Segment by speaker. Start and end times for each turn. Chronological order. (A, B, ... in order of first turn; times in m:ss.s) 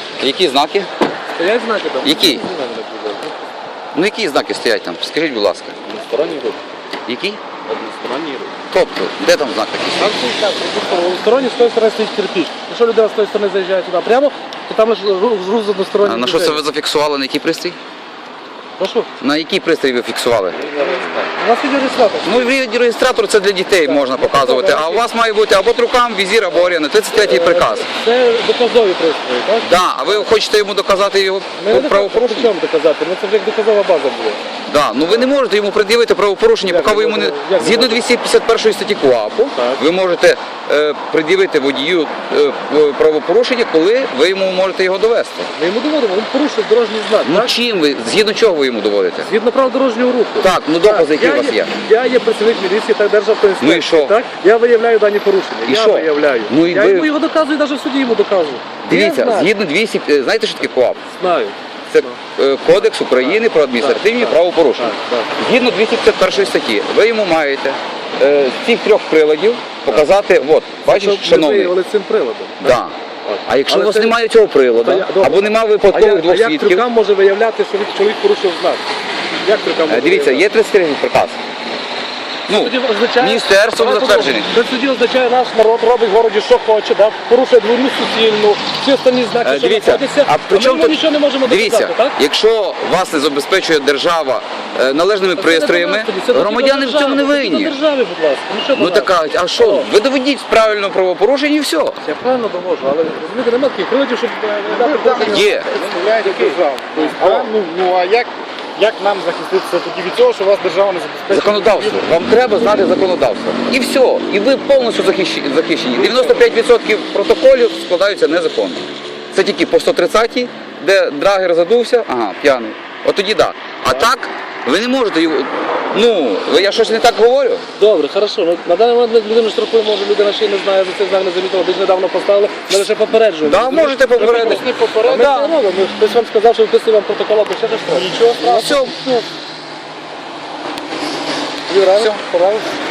0:00.2-0:00.9 A
0:01.4-0:03.4 B
0:02.0-0:02.4 A
0:03.9-0:05.8 A
0:06.0-0:06.5 B
0:07.1-0:07.4 A
0:08.0-0:08.5 B
0:08.7-0:10.2 A
0:10.0-0:16.6 B
0:16.0-0:17.8 A
0:18.8-0:19.1 B
0:19.2-0:20.6 A
0:20.7-0:22.5 B
0:22.2-0:27.9 A
0:23.8-0:25.1 B
0:27.1-0:30.3 B
0:29.6-0:32.5 A
0:31.6-0:34.4 B
0:34.7-0:45.5 A
0:36.6-0:38.0 B
0:39.6-0:39.8 B
0:45.6-0:47.5 B
0:47.2-0:49.3 A
0:49.2-0:59.5 B
0:50.4-0:51.7 A
0:53.6-0:54.2 A
0:55.7-0:57.1 A
0:58.8-1:01.0 A
1:01.1-1:02.2 B
1:01.9-1:11.7 A
1:03.2-1:05.3 B
1:10.8-1:14.2 B
1:12.6-1:13.0 A
1:13.5-1:16.9 A
1:14.8-1:18.8 B
1:19.4-1:20.5 B
1:19.9-1:21.4 A
1:22.5-1:24.5 A
1:22.5-1:32.2 B
1:29.4-1:37.8 A
1:35.4-1:39.9 B
1:38.8-1:42.0 A
1:42.0-1:47.5 B
1:44.6-1:52.0 C
1:45.2-1:45.7 A
1:51.3-2:07.6 A
2:07.8-2:19.2 B
2:13.4-2:15.5 A
2:14.0-2:15.2 C
2:17.9-2:18.5 C
2:18.4-2:19.0 A
2:21.7-2:22.6 B
2:22.0-2:22.2 A